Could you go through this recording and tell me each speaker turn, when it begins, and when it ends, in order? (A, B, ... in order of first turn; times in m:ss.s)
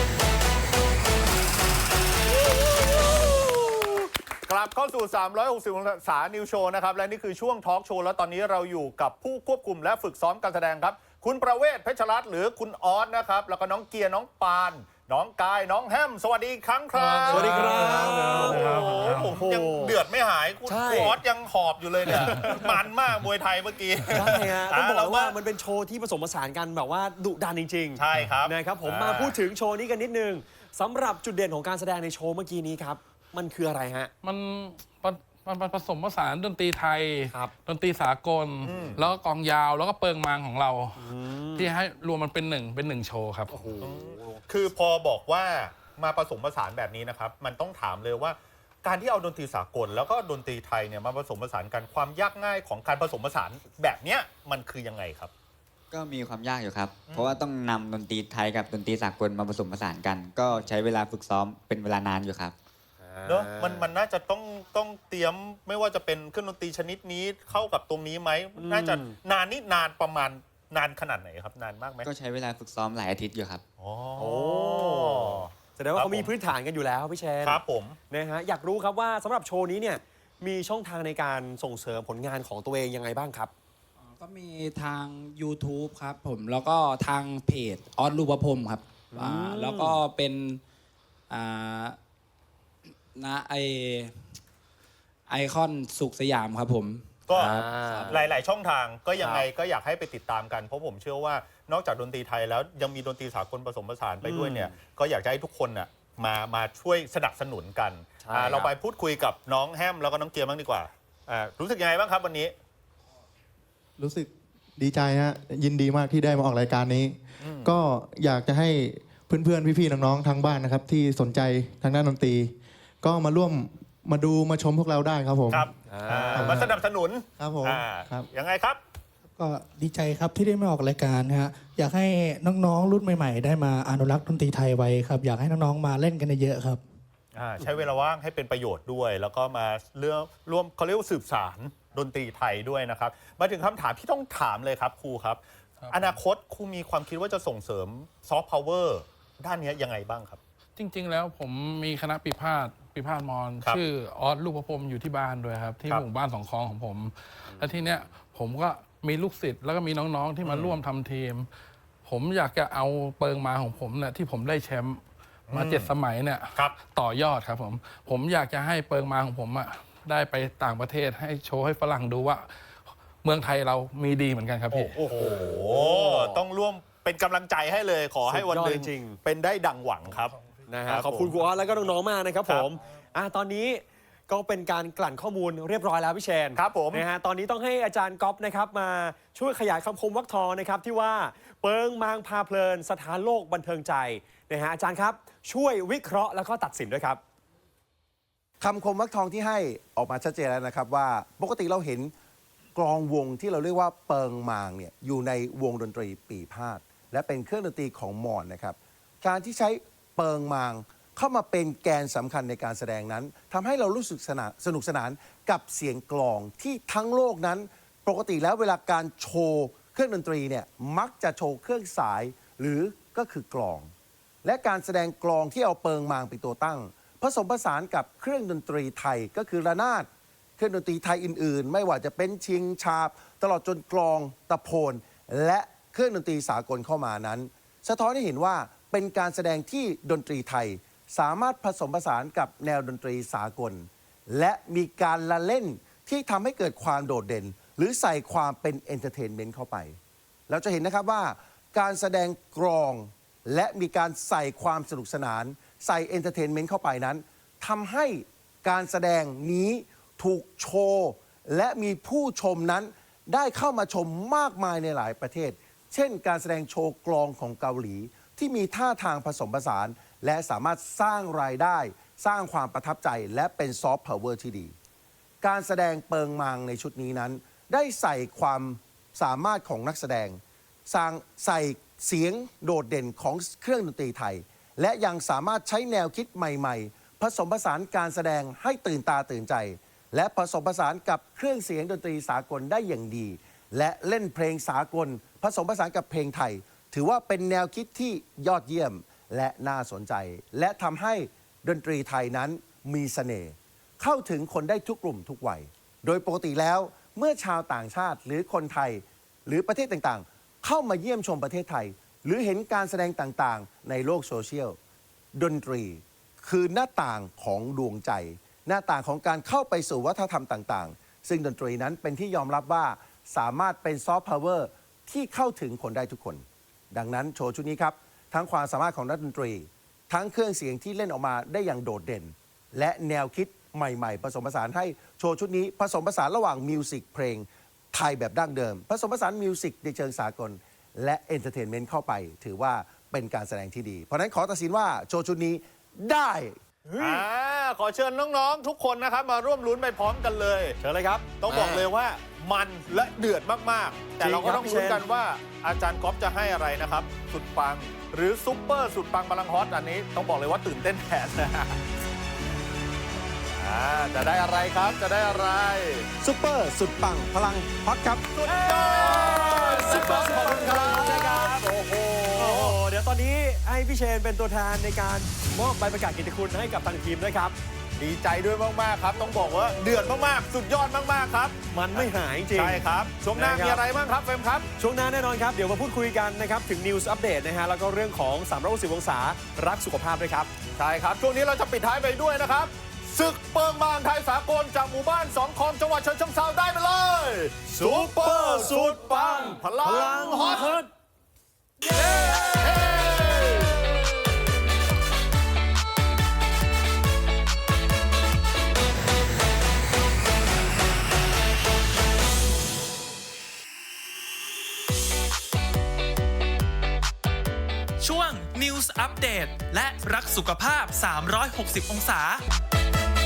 0:02.3-0:25.3 A
0:16.9-0:19.4 B
0:17.3-0:19.9 C
0:20.7-0:21.2 C
0:22.1-0:22.6 C
0:24.1-0:34.1 C
0:28.0-0:29.4 A
0:34.2-0:43.6 B
0:38.6-0:39.0 A
0:41.0-0:41.7 C
0:43.5-0:44.4 C
0:43.8-0:55.3 A
0:55.9-1:02.5 D
0:57.1-0:57.4 A
1:03.0-1:03.9 C
1:03.2-1:12.1 A
1:08.6-1:09.2 C
1:12.0-1:13.6 D
1:13.8-1:16.3 A
1:14.2-1:23.5 C
1:17.4-1:18.0 A
1:24.0-1:30.6 E
1:29.1-1:30.0 C
1:31.3-1:32.0 E
1:33.2-1:34.1 E
1:35.3-1:38.2 E
1:37.3-1:52.5 A
1:37.4-1:38.2 C
1:39.2-1:39.5 C
1:44.2-1:44.8 C
1:48.2-1:48.7 C
1:54.0-2:05.7 F
1:57.4-1:57.7 A
2:05.5-2:08.8 A
2:05.9-2:06.7 C
2:06.3-2:06.8 F
2:07.4-2:08.3 F
2:09.4-2:16.8 G
2:17.3-2:25.4 A
2:25.9-2:30.4 A
2:30.8-2:41.5 B
2:40.4-2:40.8 A
2:42.0-2:52.5 B
2:45.5-2:45.9 A
2:53.2-2:54.9 B
2:54.7-3:00.3 A
2:54.9-2:56.4 C
2:58.3-2:59.2 C
3:00.7-3:17.2 C
3:00.9-3:01.3 A
3:06.6-3:07.0 A
3:18.6-3:22.1 H
3:22.8-3:43.9 H
3:44.4-4:34.8 H
4:35.4-5:14.8 H
5:15.3-5:46.6 H
5:46.9-5:47.2 C
5:47.0-5:50.8 A
5:50.8-5:51.9 C
5:51.4-6:01.8 A
5:54.2-5:55.0 C
6:03.6-6:06.1 A
6:06.2-6:08.3 H
6:08.3-6:12.8 A
6:08.4-6:11.6 C
6:09.3-6:11.3 H
6:12.3-6:17.6 C
6:18.0-6:24.7 A
6:21.7-6:23.8 C
6:24.8-6:30.5 C
6:30.8-6:40.8 A
6:37.7-6:40.9 C
6:42.2-6:42.6 C
6:42.3-6:44.0 A
6:58.0-7:02.4 I